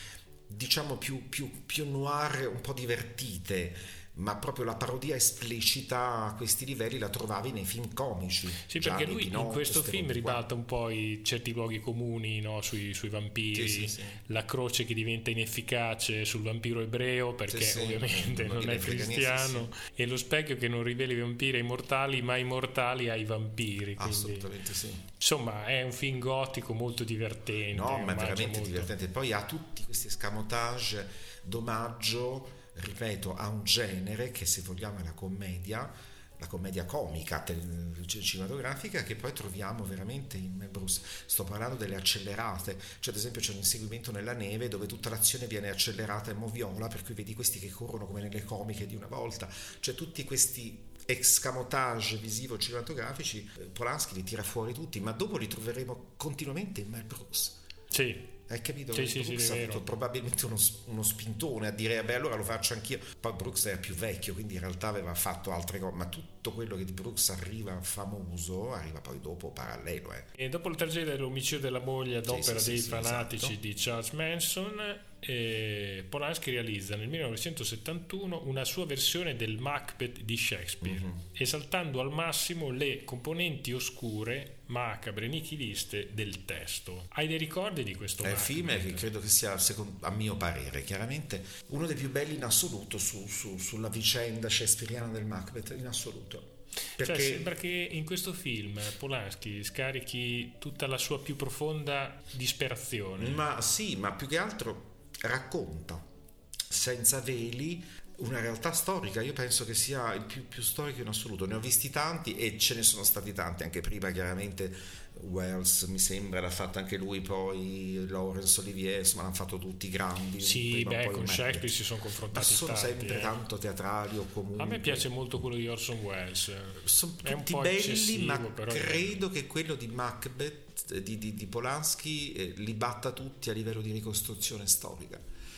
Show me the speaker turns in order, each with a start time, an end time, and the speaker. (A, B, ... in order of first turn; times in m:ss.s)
0:00.5-0:10.4 A
0:08.6-0:24.5 B
0:13.5-0:14.2 A
0:17.5-0:19.7 A
0:24.0-0:25.0 A
0:25.2-0:28.9 B
0:27.7-0:57.6 A
0:57.9-0:58.3 B
0:58.5-1:10.3 A
0:58.9-0:59.8 B
1:10.4-1:29.1 B
1:12.3-1:13.6 A
1:20.8-1:21.2 A
1:28.2-1:37.5 A
1:37.0-1:43.4 B
1:43.2-1:46.0 A
1:46.7-2:01.8 A
2:00.4-2:03.3 B
2:02.3-2:05.1 A
2:04.6-2:09.2 B
2:06.8-2:15.2 A